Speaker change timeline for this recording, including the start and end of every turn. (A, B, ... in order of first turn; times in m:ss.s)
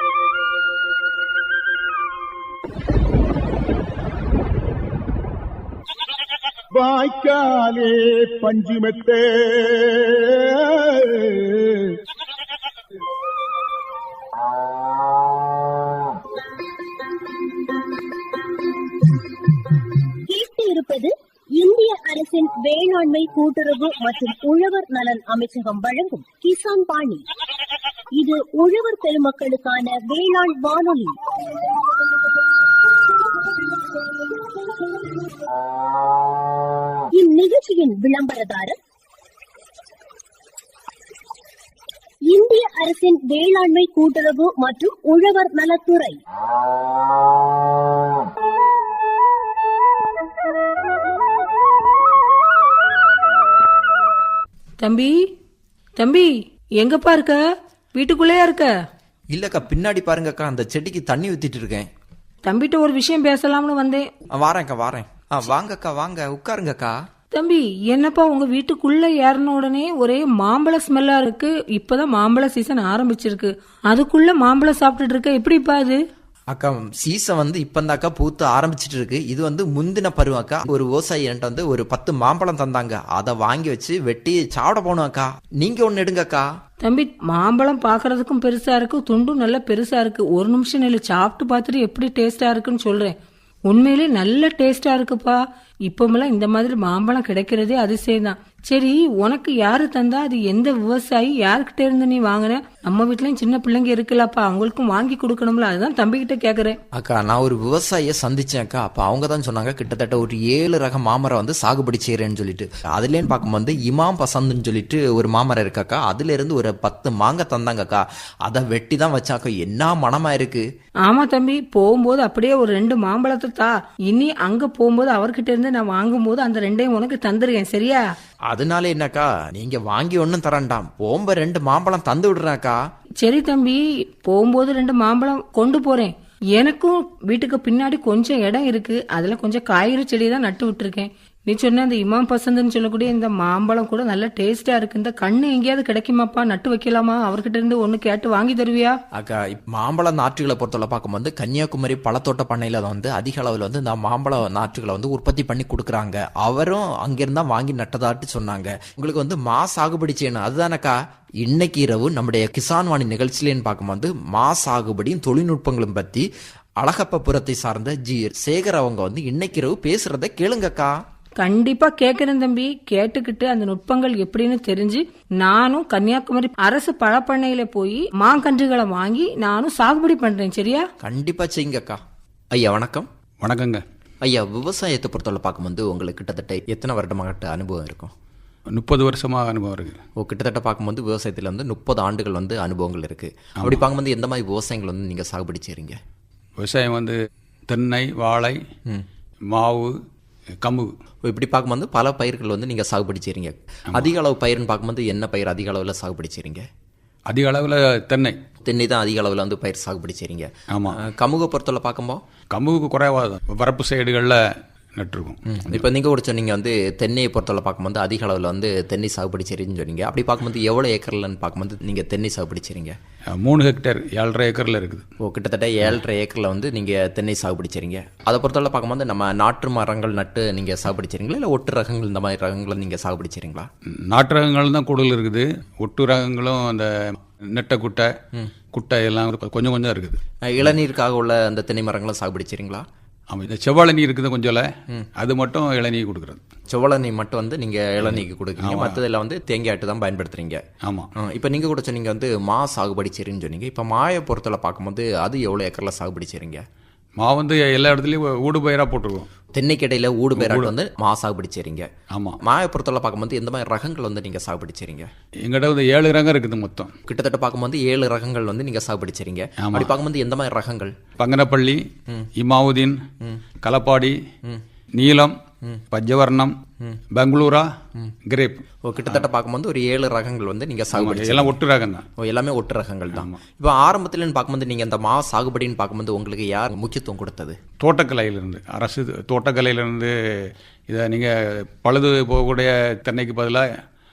0:06.7-0:12.0 A
0:20.3-0:27.2 B
0:28.2-0:31.2 B
0:37.1-0:38.8 B
0:42.3-0:46.2 B
0:54.8-0:55.1 C
0:56.0-0:57.4 C
0:57.9-0:58.7 C
0:59.3-1:01.8 D
1:02.4-1:04.0 C
1:04.4-1:07.0 D
1:07.3-1:16.0 C
1:16.5-1:26.5 D
1:26.8-1:33.1 C
1:33.7-1:46.8 C
1:46.9-2:00.6 D
2:01.0-2:08.0 C
2:08.5-2:12.8 D
2:13.2-2:29.0 C
2:29.1-2:46.3 D
2:46.8-2:50.9 D
2:51.4-3:00.8 C
3:01.0-3:02.0 D
3:02.5-3:03.1 D
3:03.4-3:03.8 E
3:04.2-3:08.1 D
3:08.7-3:10.0 E
3:10.2-3:16.0 D
3:13.6-3:13.9 E
3:16.6-3:17.2 E
3:17.7-3:18.6 E
3:19.5-3:19.9 E
3:20.6-3:20.9 E
3:21.2-3:26.6 D
3:27.3-3:28.4 E
3:28.6-3:32.2 D
3:30.7-3:31.0 E
3:32.5-3:34.4 E
3:35.0-3:35.8 E
3:35.5-3:42.9 D
3:43.4-3:45.0 E
3:45.2-3:53.7 D
3:54.1-3:56.9 E
3:57.5-3:58.1 E
3:58.7-4:00.2 E
4:00.5-4:02.8 D
4:03.3-4:06.4 E
4:06.7-4:10.6 D
4:08.0-4:09.0 E
4:10.8-4:11.1 E
4:11.2-4:16.6 D
4:17.2-4:19.3 E
4:19.5-4:21.9 D
4:20.4-4:20.7 E
4:22.1-4:22.4 E
4:22.4-4:25.1 D
4:25.4-4:26.9 E
4:27.1-4:30.9 D
4:29.6-4:30.0 E
4:31.2-4:31.8 E
4:32.4-4:33.0 E
4:33.6-4:34.2 E
4:35.0-4:35.3 E
4:35.9-4:36.5 E
4:37.1-4:37.7 E
4:38.3-4:39.2 E
4:38.8-4:41.6 D
4:40.9-4:42.0 E
4:42.2-4:47.5 D
4:43.1-4:43.4 E
4:47.8-4:50.1 E
4:50.9-4:53.6 E